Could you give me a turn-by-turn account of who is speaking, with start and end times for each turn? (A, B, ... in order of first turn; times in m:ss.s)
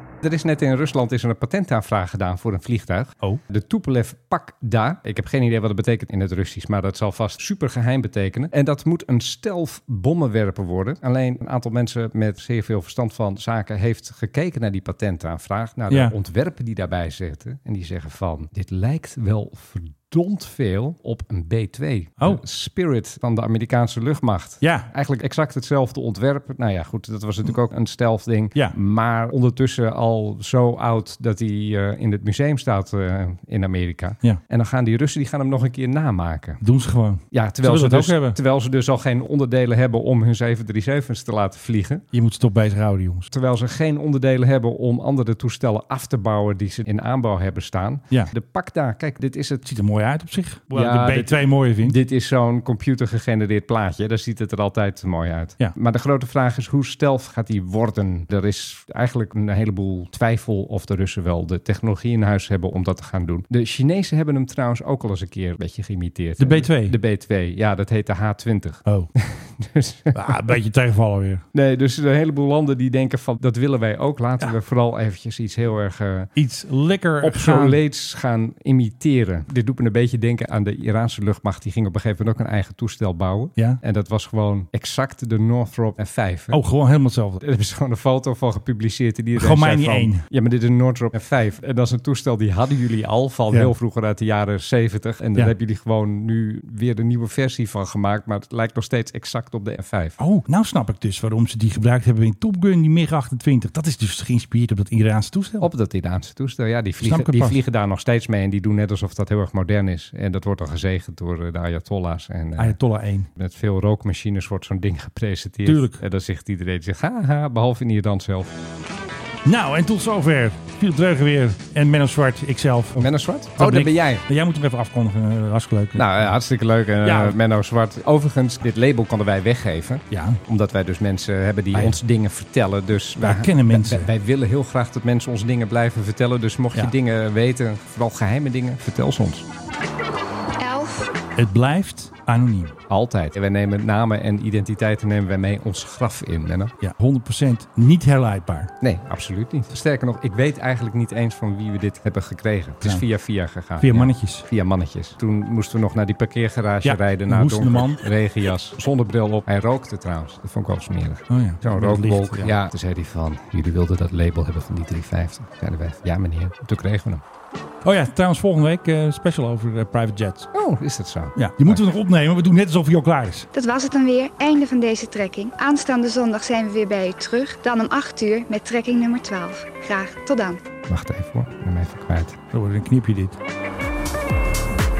0:00.2-0:36.6 A
0:24.6-0:24.9 B
0:36.6-0:38.4 B
0:37.3-0:42.0 A
0:42.1-0:43.3 B
0:43.3-0:49.6 A
0:49.6-0:52.0 B
0:50.7-1:10.6 A
1:06.4-1:07.0 B
1:10.1-1:11.4 B
1:11.5-1:16.3 A
1:16.4-1:17.8 B
1:17.2-1:26.6 A
1:26.5-1:27.4 B
1:27.4-1:40.2 A
1:29.4-1:30.2 B
1:40.2-1:45.7 B
1:45.6-1:52.8 A
1:47.0-1:47.6 B
1:52.6-1:53.3 B
1:53.4-1:58.5 A
1:55.6-1:56.0 B
1:59.4-2:06.3 B
2:03.0-2:04.2 A
2:06.0-2:19.4 A
2:07.0-2:07.4 B
2:10.1-2:10.4 B
2:13.2-2:14.1 B
2:20.6-2:21.1 C
2:21.4-2:22.8 B
2:22.9-2:26.7 A
2:26.8-2:28.7 B
2:28.8-2:47.2 A
2:32.8-2:33.1 B
2:33.8-2:34.4 B
2:36.8-2:38.0 B
2:41.3-2:42.5 B
2:47.8-2:50.5 B
2:50.5-2:51.8 A
2:51.4-2:53.5 B
2:53.5-3:00.6 C
3:00.9-3:02.4 A
3:02.5-3:03.4 B